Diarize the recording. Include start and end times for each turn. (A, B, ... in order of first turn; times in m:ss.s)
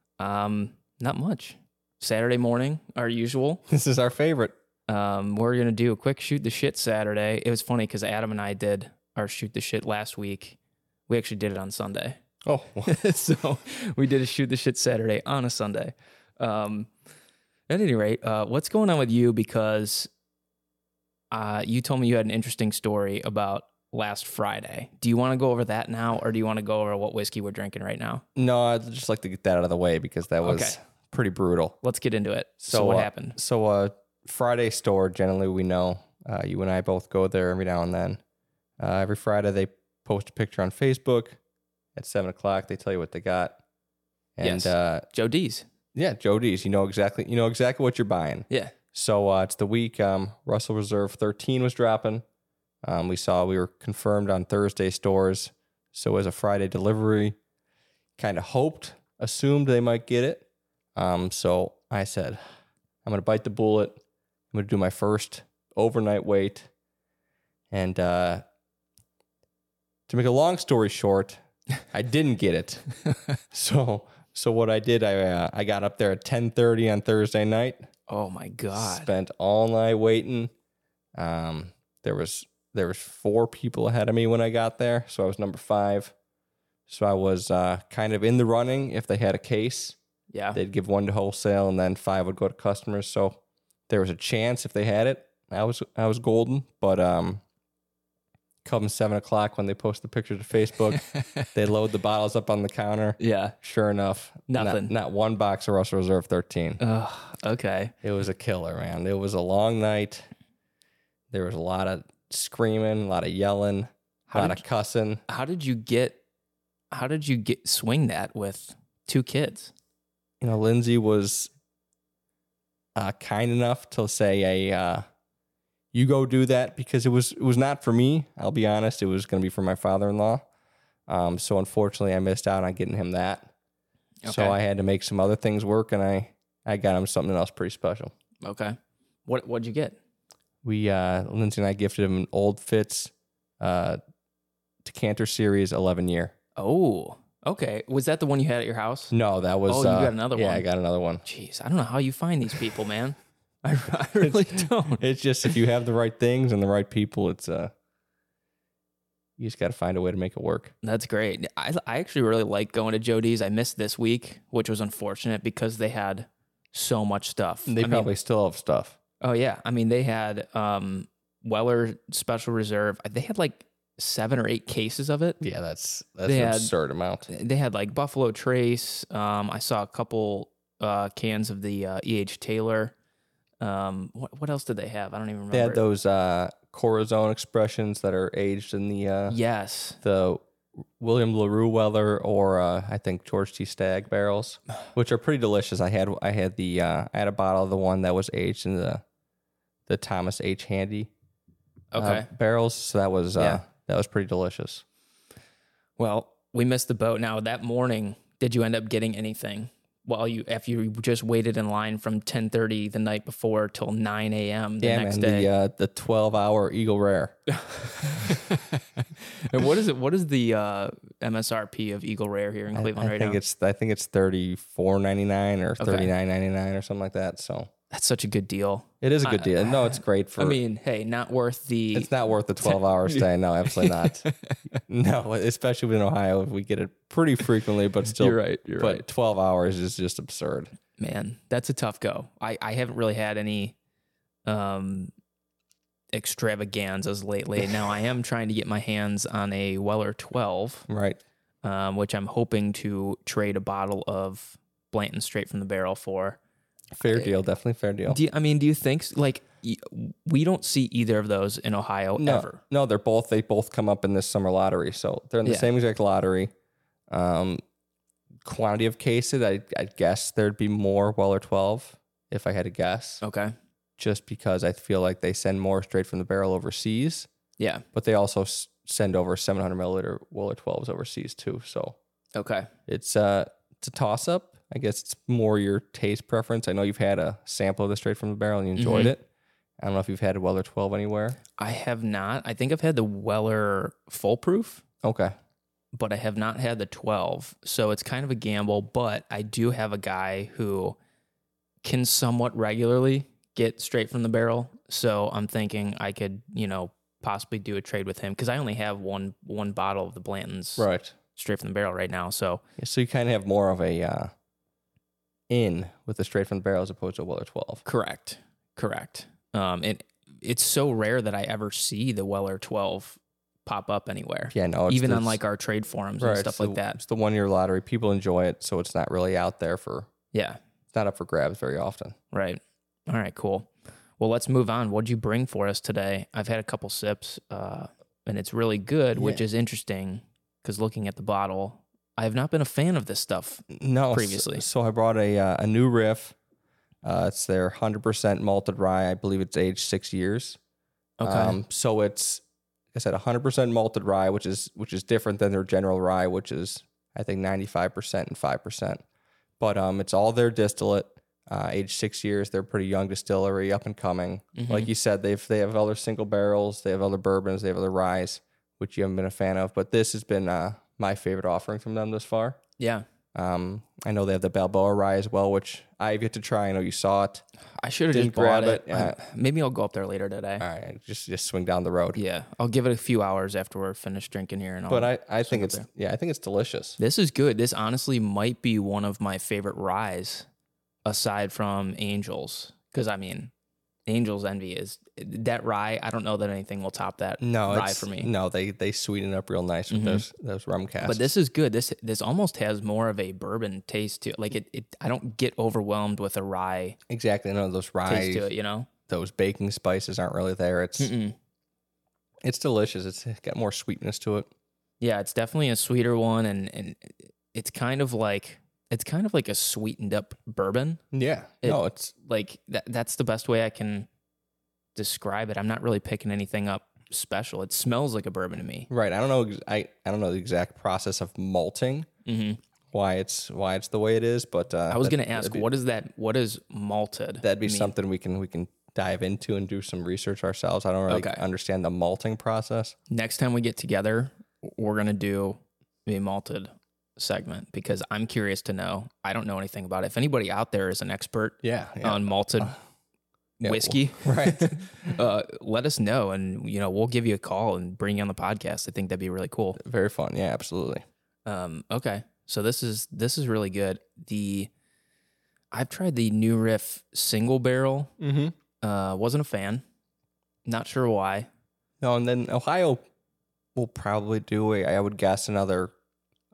0:00.2-0:03.6 A
0:03.7-0:04.6 B
0:04.9-0:12.2 A
0:12.5-0:12.9 B
0:12.9-0:16.9 A
0:17.7-0:20.1 A
0:21.3-0:28.2 A
0:28.4-0:31.8 B
0:30.4-0:30.8 A
0:31.8-0:33.4 A
0:32.6-0:38.2 B
0:38.8-0:41.4 B
0:42.0-0:43.6 B
0:44.4-0:45.1 B
0:44.4-0:45.6 A
0:46.0-0:52.2 B
0:48.5-0:48.8 A
0:52.8-0:57.4 B
0:58.2-1:02.4 B
1:03.0-1:06.7 B
1:07.7-1:08.4 B
1:10.1-1:11.4 B
1:11.9-1:12.9 B
1:13.5-1:17.9 B
1:18.1-1:19.1 A
1:18.7-1:20.5 B
1:21.2-1:26.1 B
1:26.9-1:30.0 B
1:30.3-1:30.6 A
1:30.5-1:37.4 B
1:38.6-1:46.8 B
1:41.0-1:41.4 A
1:43.2-1:43.6 A
1:44.5-1:44.9 A
1:46.8-1:47.9 A
1:48.0-1:50.3 B
1:51.3-1:55.2 B
1:54.3-1:54.6 A
1:55.3-1:56.2 A
1:56.9-1:59.7 A
2:00.4-2:01.5 B
2:03.0-2:05.0 B
2:05.9-2:10.4 B
2:11.1-2:13.5 B
2:14.2-2:14.6 A
2:14.3-2:18.1 B
2:18.4-2:20.0 A
2:20.6-2:24.0 B
2:24.8-2:26.4 B
2:26.6-2:29.1 A
2:29.1-2:31.2 B
2:29.7-2:30.7 A
2:31.2-2:35.5 A
2:34.2-2:37.7 B
2:39.4-2:40.7 B
2:40.8-2:48.1 A
2:47.7-2:49.0 B
2:49.2-2:55.4 A
2:55.4-2:57.3 B
2:56.2-2:56.7 A
2:57.3-3:02.9 A
3:03.6-3:05.8 A
3:05.5-3:09.4 B
3:09.3-3:10.0 A
3:10.0-3:10.4 B
3:11.0-3:19.0 B
3:19.9-3:21.1 B
3:21.9-3:22.3 A
3:22.0-3:24.8 B
3:23.4-3:23.6 A
3:26.0-3:35.5 A
3:34.8-3:37.4 B
3:37.5-3:43.4 A
3:42.7-3:47.7 B
3:45.8-3:46.1 A
3:47.9-3:54.6 A
3:49.0-3:50.6 B
3:51.9-3:54.3 B
3:54.9-4:00.7 B
3:58.2-3:59.0 A
4:01.0-4:03.8 A
4:04.5-4:05.1 A
4:06.1-4:10.9 A
4:10.9-4:11.2 B
4:11.6-4:16.4 A
4:17.0-4:18.2 B
4:18.1-4:22.6 A
4:22.2-4:26.5 B
4:27.1-4:27.6 B
4:28.4-4:33.2 B
4:33.2-4:33.5 A
4:34.0-4:37.3 B
4:37.6-4:37.8 A
4:37.9-4:42.0 B
4:42.4-4:42.7 A
4:42.9-4:49.3 B
4:48.8-4:49.1 A
4:49.8-4:51.4 B
4:51.6-4:54.8 A
4:55.0-4:55.3 B
4:55.9-5:01.0 A
5:01.8-5:12.6 A
5:10.8-5:11.1 B
5:12.8-5:14.3 B
5:15.5-5:17.8 B
5:17.8-5:27.0 A
5:24.5-5:25.4 B
5:26.2-5:30.1 B
5:30.3-5:30.6 A
5:30.9-5:32.2 B
5:32.3-5:44.7 A
5:39.2-5:39.4 B
5:43.7-5:46.4 B
5:47.0-5:50.6 B
5:51.2-5:51.6 A
5:51.2-5:59.0 B
5:59.6-6:12.6 B
6:04.6-6:04.9 A
6:12.8-6:13.0 A
6:13.4-6:17.4 B
6:17.8-6:20.6 A
6:18.1-6:19.2 B
6:20.6-6:22.2 B
6:22.2-6:25.9 A
6:24.9-6:27.0 B
6:27.0-6:30.5 A
6:31.0-6:33.5 A
6:34.1-6:38.3 A
6:37.4-6:41.3 B
6:39.9-6:40.2 A
6:41.0-6:47.0 A
6:47.1-6:48.5 B
6:48.1-6:48.9 A
6:49.1-6:51.1 B
6:51.0-6:51.4 A
6:52.4-6:54.5 B
6:55.0-7:01.0 A
7:01.1-7:02.1 B
7:01.6-7:04.1 A
7:05.0-7:08.9 A
7:08.9-7:12.1 B
7:12.2-7:12.6 A
7:12.9-7:15.7 B
7:14.9-7:17.9 A
7:17.4-7:23.0 B
7:21.1-7:21.4 A
7:23.1-7:32.7 A
7:31.6-7:32.8 B
7:33.6-7:35.1 B
7:33.6-7:39.8 A
7:39.8-7:41.0 B
7:41.5-7:44.7 A
7:45.7-7:48.1 A
7:48.2-7:48.6 B
7:48.8-7:49.8 A
7:50.7-7:51.5 A
7:52.0-7:53.0 B
7:53.8-7:55.9 B